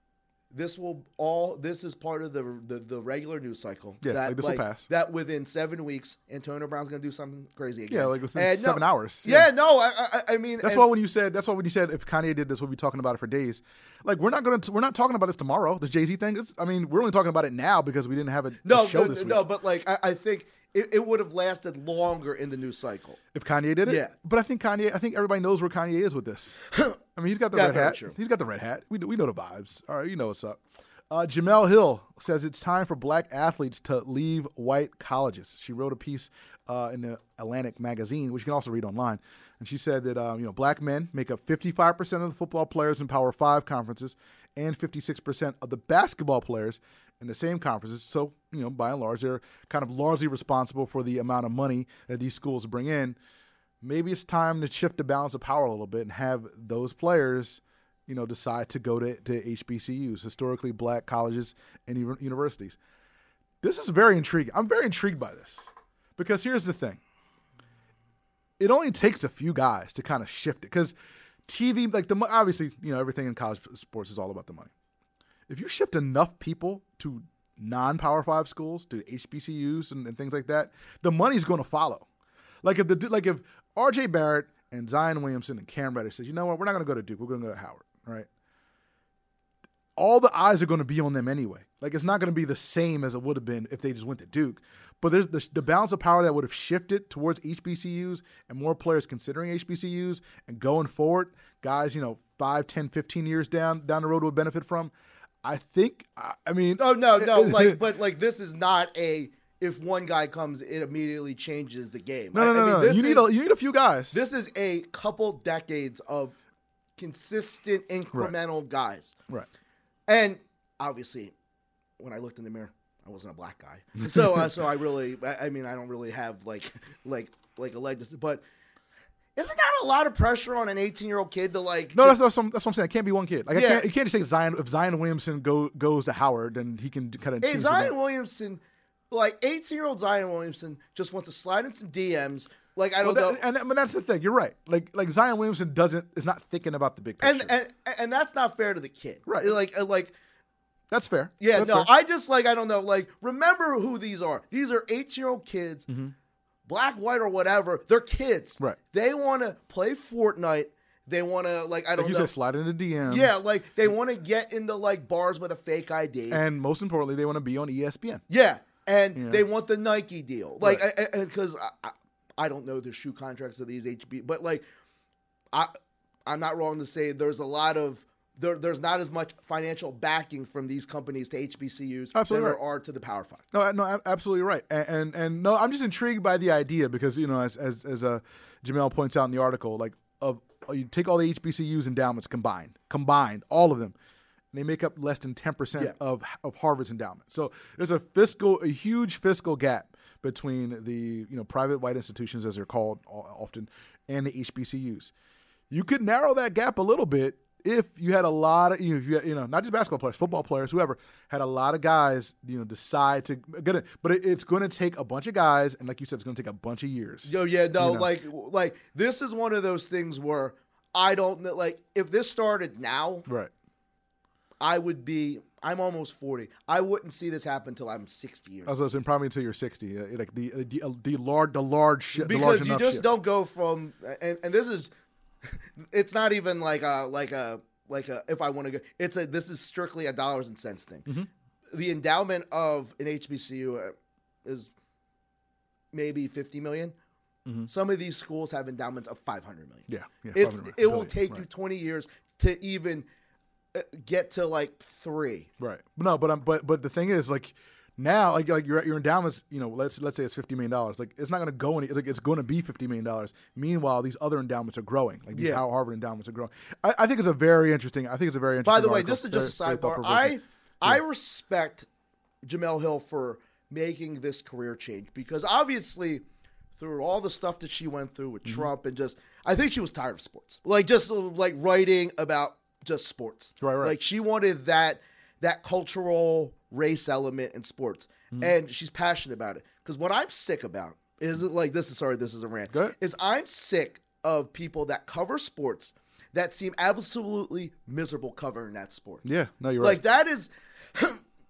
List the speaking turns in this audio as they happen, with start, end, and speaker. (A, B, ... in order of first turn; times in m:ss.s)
0:00.5-0:10.9 A
0:04.0-0:04.9 B
0:07.9-0:09.5 B
0:10.6-0:19.5 B
0:18.6-0:23.2 A
0:23.3-0:30.6 B
0:23.8-0:24.1 A
0:26.7-0:27.0 A
0:27.5-0:28.2 A
0:31.1-0:53.2 B
0:53.8-1:02.8 B
1:03.6-1:07.0 B
1:08.6-1:10.9 B
1:11.5-1:14.7 B
1:15.5-1:22.0 B
1:22.6-1:28.3 B
1:30.0-1:44.9 B
1:45.4-1:47.8 B
1:46.8-1:53.3 A
1:52.3-1:54.2 B
1:54.1-1:56.4 A
1:57.0-1:59.2 A
2:00.1-2:01.3 A
2:02.0-2:08.4 A
2:04.0-2:04.5 B
2:09.4-2:12.2 A
2:11.9-2:17.9 B
2:13.5-2:13.9 A
2:17.4-2:23.4 A
2:23.0-2:27.6 B
2:27.2-2:30.1 A
2:29.3-2:29.6 B
2:30.9-2:31.9 B
2:31.4-2:35.9 A
2:35.9-2:36.1 B
2:36.7-2:42.3 A
2:42.0-2:43.4 B
2:43.1-2:46.4 A
2:46.3-2:48.2 B
2:48.3-2:54.6 A
2:49.2-2:49.4 B
2:50.6-2:50.9 B
2:56.3-3:03.4 A
3:02.1-3:02.6 B
3:03.5-3:14.0 B
3:14.5-3:25.1 B
3:25.7-3:38.1 B
3:37.3-3:43.2 A
3:43.3-3:43.5 B
3:44.6-3:48.7 A
3:48.7-3:53.1 B
3:52.2-3:54.9 A
3:55.4-4:01.1 A
4:01.7-4:04.7 A
4:05.9-4:07.0 A
4:07.7-4:13.1 A
4:09.9-4:11.5 B
4:13.7-4:15.5 A
4:15.6-4:31.0 B
4:25.3-4:25.6 A
4:28.6-4:31.9 A
4:32.4-4:36.2 A
4:36.8-4:59.2 A
4:43.6-4:44.0 B
4:59.2-5:00.0 B
4:59.8-5:01.2 A